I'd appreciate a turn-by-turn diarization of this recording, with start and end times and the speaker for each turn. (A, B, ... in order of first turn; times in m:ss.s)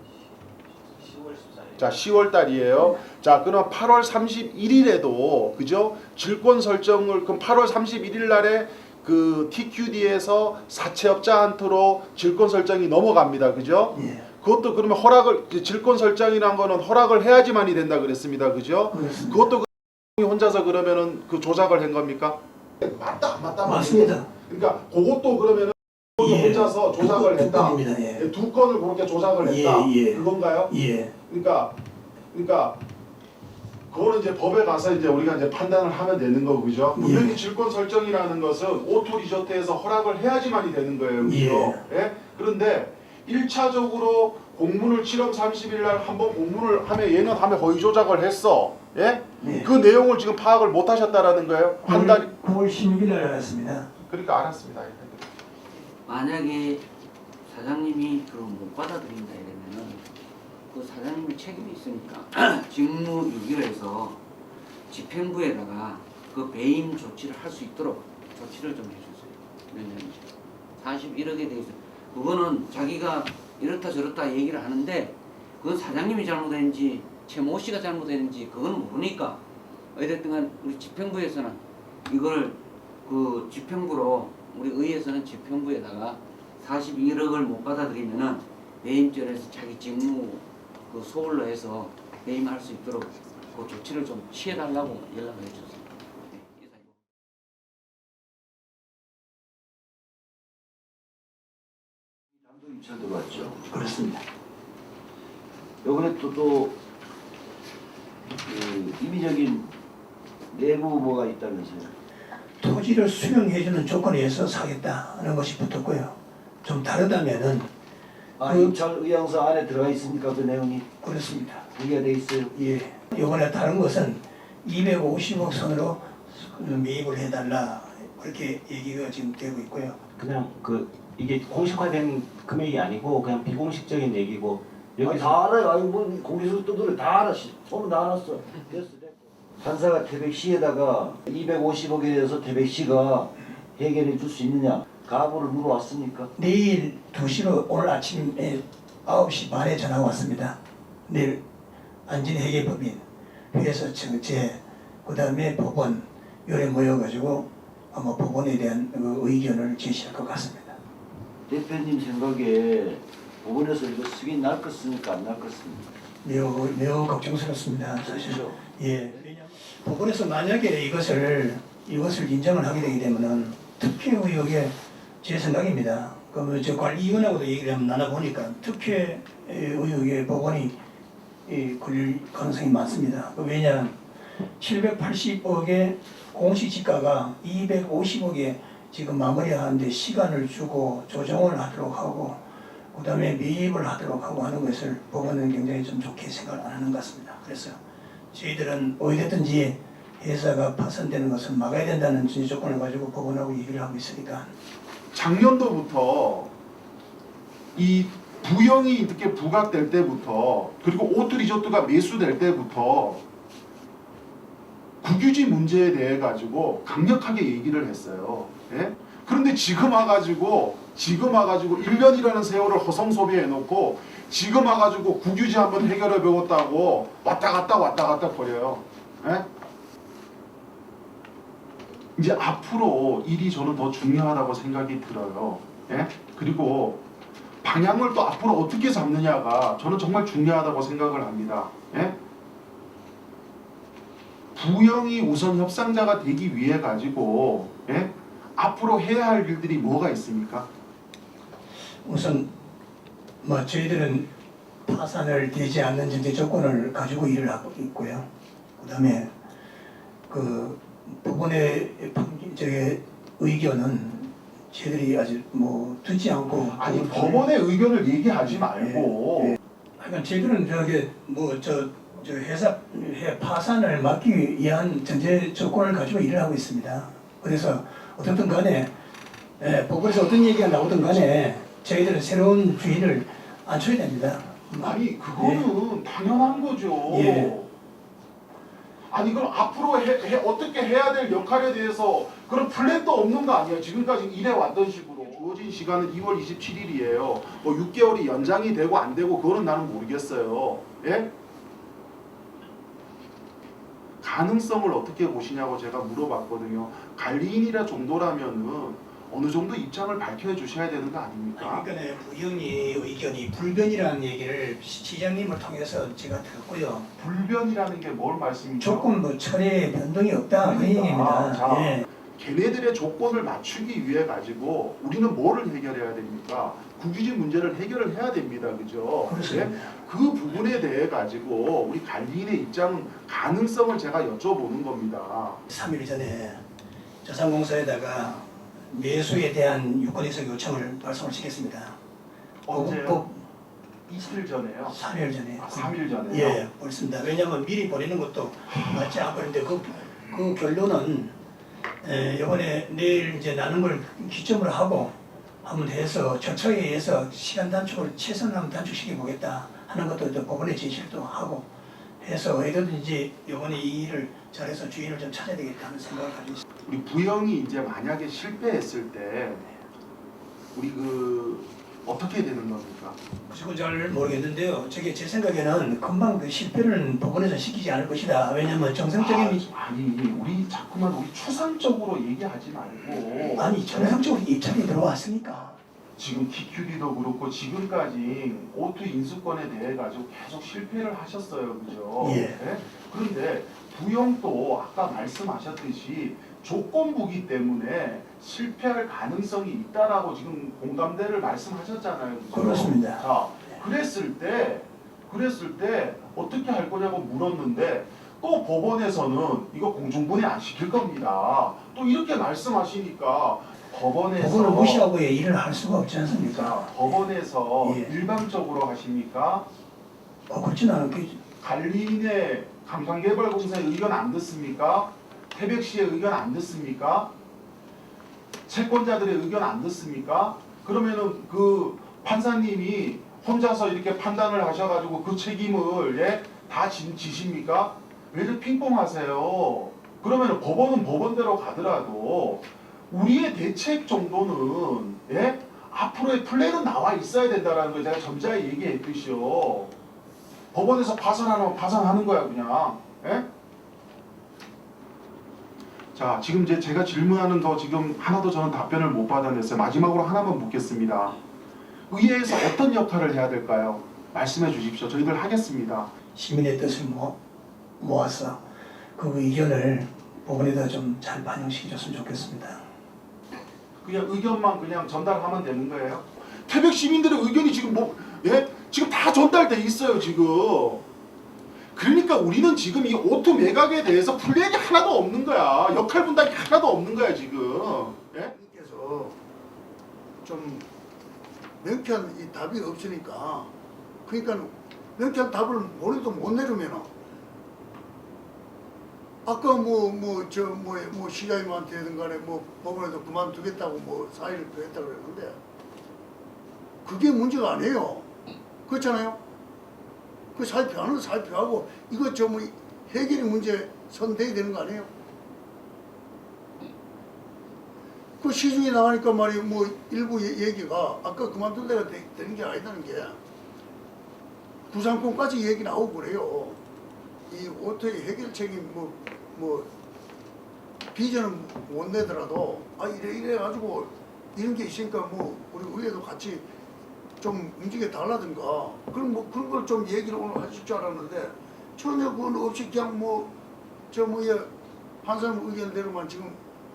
0:01.0-0:01.8 A
0:01.8-0:30.7 B
0:13.9-0:14.3 C
0:18.9-0:19.4 C
0:23.6-0:24.3 C
0:26.2-0:28.3 C
0:29.4-0:31.1 C
0:31.3-0:31.8 B
0:32.3-0:32.8 B
0:33.9-0:52.3 B
0:36.9-0:37.4 C
0:41.2-0:41.8 C
0:49.4-0:49.7 C
0:51.8-0:53.9 C
0:54.0-0:55.3 B
0:56.0-0:56.8 D
0:57.4-1:00.0 D
1:00.7-1:04.2 D
1:04.9-1:19.4 D
1:19.9-1:36.9 D
1:42.4-1:43.6 E
1:43.7-1:44.2 C
1:45.8-1:46.7 E
1:48.4-1:49.7 E
1:50.5-1:51.9 E
1:52.6-1:57.7 C
1:58.4-2:00.9 E
1:58.4-1:58.7 C
2:01.0-2:01.7 C
2:01.7-2:02.5 E
2:02.5-2:10.0 C
2:10.2-2:15.4 A
2:15.0-2:26.3 E
2:26.4-2:31.4 C
2:32.1-2:40.8 C
2:41.5-2:45.9 E
2:46.2-3:00.8 C
2:48.0-2:49.2 E
3:01.4-3:04.0 C
3:04.6-3:17.8 C
3:18.3-3:24.5 C
3:25.1-3:26.5 B
3:27.7-3:33.2 B
3:35.0-3:49.5 B
3:52.2-3:57.0 B
3:57.6-4:02.2 B
4:04.6-4:10.7 B
4:12.0-4:12.5 C
4:13.4-4:14.3 C
4:14.8-4:19.3 C
4:20.3-4:27.4 C
4:26.6-4:29.6 B
4:28.6-4:38.9 C
4:39.6-4:45.6 C
4:44.8-4:47.7 B
4:47.0-4:47.5 C
4:49.1-5:01.3 B
5:04.2-5:11.8 B
5:11.6-5:17.1 C
5:17.2-5:19.2 B
5:18.8-5:22.0 C
5:20.6-5:35.6 B
5:29.2-5:29.9 C
5:35.7-5:36.6 C
5:37.2-5:42.0 C
5:42.7-5:43.3 B
5:42.7-5:43.4 C
5:44.1-5:45.0 B
5:44.9-5:51.3 C
5:45.6-5:46.6 B
5:52.0-6:01.7 C
6:02.2-6:06.6 C
6:06.8-6:09.7 B
6:10.7-6:13.2 B
6:13.5-6:19.6 C
6:19.1-6:24.3 B
6:23.6-6:25.8 C
6:26.2-6:55.1 B
6:32.2-6:32.6 C
6:42.5-6:43.2 C
6:54.4-6:57.2 C
6:56.4-6:59.7 B
6:57.8-6:58.1 C
7:00.5-7:01.4 C
7:01.6-7:07.3 B
7:08.7-7:29.9 B
7:30.7-7:33.5 B
7:36.1-7:41.4 B
7:42.1-7:46.1 B
7:46.3-7:47.4 C
7:48.0-7:48.6 C
7:49.2-7:52.8 C
7:54.0-8:01.0 B
8:01.9-8:08.5 B
8:08.5-8:09.4 F
8:10.4-8:10.8 F
8:11.8-8:13.7 F
8:14.2-8:17.1 F
8:19.4-8:25.6 F
8:27.0-8:28.3 F
8:28.9-8:29.4 F
8:30.5-8:35.1 F
8:38.4-8:43.4 F
8:44.9-8:46.8 F
8:47.5-8:49.9 F
8:51.1-8:56.6 F
8:57.4-9:03.5 F
9:04.1-9:04.7 F
9:05.2-9:06.6 F